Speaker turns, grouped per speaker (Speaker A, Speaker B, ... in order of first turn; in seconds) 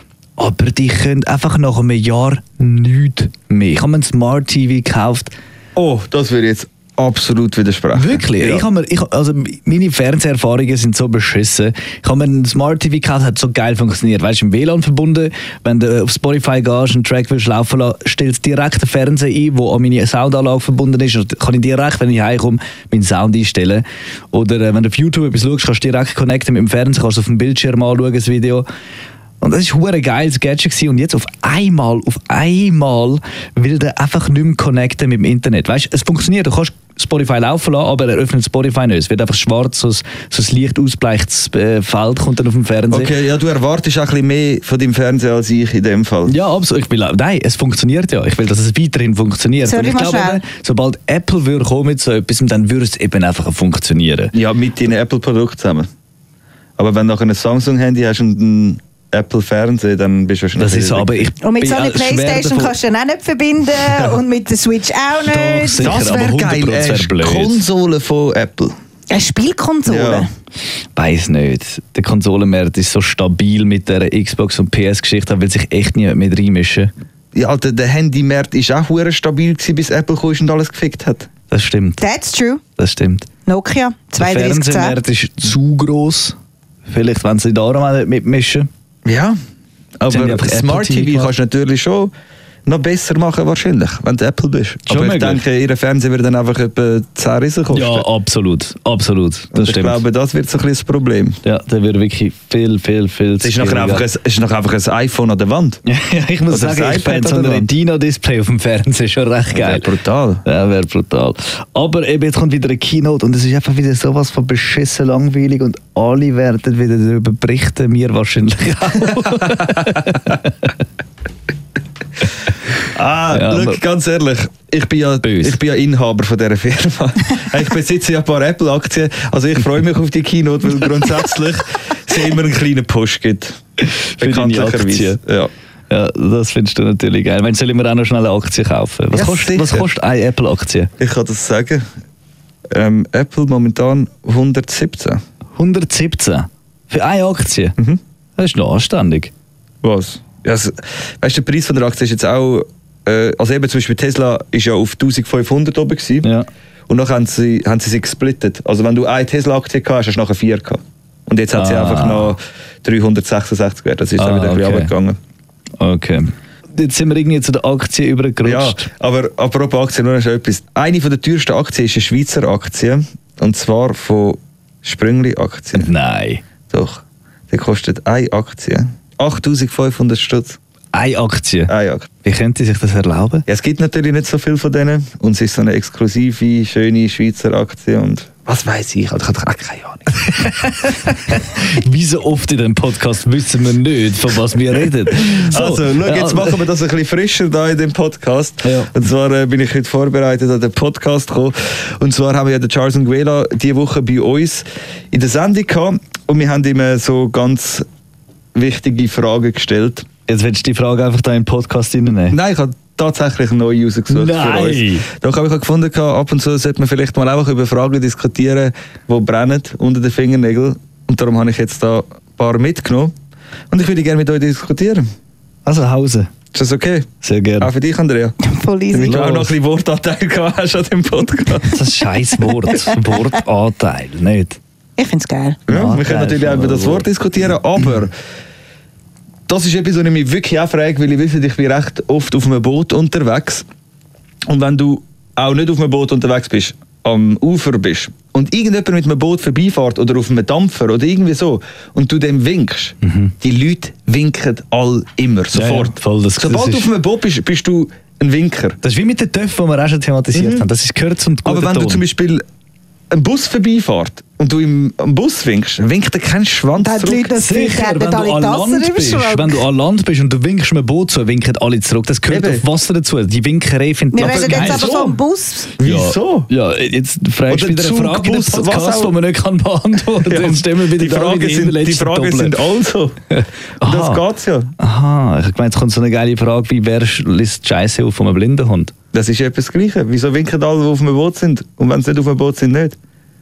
Speaker A: 0.4-5.3, 8.0-28.7, 29.4-43.1, 46.3-54.3, 60.6-62.8, 65.2-67.6, 71.0-76.9, 81.5-82.0, 82.8-83.3, 84.2-86.4, 86.9-88.7, 90.1-91.3, 94.9-95.4, 97.7-100.0, 101.5-104.0, 105.9-109.9, 110.5-120.5, 123.3-123.8, 125.2-125.6, 133.8-135.2, 135.9-140.9, 145.6-147.8, 148.4-149.3, 161.6-162.3, 164.2-164.9, 165.8-168.8, 175.8-176.4, 180.9-181.7, 182.2-183.4, 190.2-196.6, 198.6-198.9, 210.3-212.4, 214.1-215.1, 225.7-226.3, 227.2-227.7, 229.0-229.5, 231.7-234.6, 235.7-237.1, 253.0-253.3, 255.5-256.9, 258.8-262.0, 267.4-275.0, 275.8-282.6, 283.3-284.2, 284.8-288.9
Speaker B: 5.8-8.7, 42.9-46.3, 54.3-55.9, 56.8-61.3, 63.9-64.2, 65.8-68.8, 69.9-70.3, 77.3-81.3, 89.0-89.4, 90.0-92.1, 92.7-98.1, 99.5-101.4, 103.4-105.8, 106.5-107.7, 109.5-110.4, 119.4-120.2, 122.9-133.6, 134.2-135.5, 139.1-139.9, 141.0-141.9, 142.7-145.2, 149.8-156.3, 156.9-165.2, 168.4-175.9, 176.7-180.6, 181.7-182.1, 183.5-190.3, 195.1-207.9, 208.5-210.1, 212.3-223.1, 223.7-225.1, 226.5-228.3, 228.9-231.8, 235.7-238.1, 239.5-243.7, 244.5-258.8, 260.3-260.7, 261.4-262.4, 263.1-267.3, 272.3-272.6, 274.2-275.2, 275.8-276.5, 277.5-279.1, 280.2-283.2, 283.8-284.7, 289.1-293.0
Speaker C: 49.6-50.4, 61.4-66.1, 69.1-70.3, 82.0-82.6, 83.5-85.0, 228.4-229.2, 232.7-233.0, 235.0-235.6, 266.8-269.6, 274.1-275.7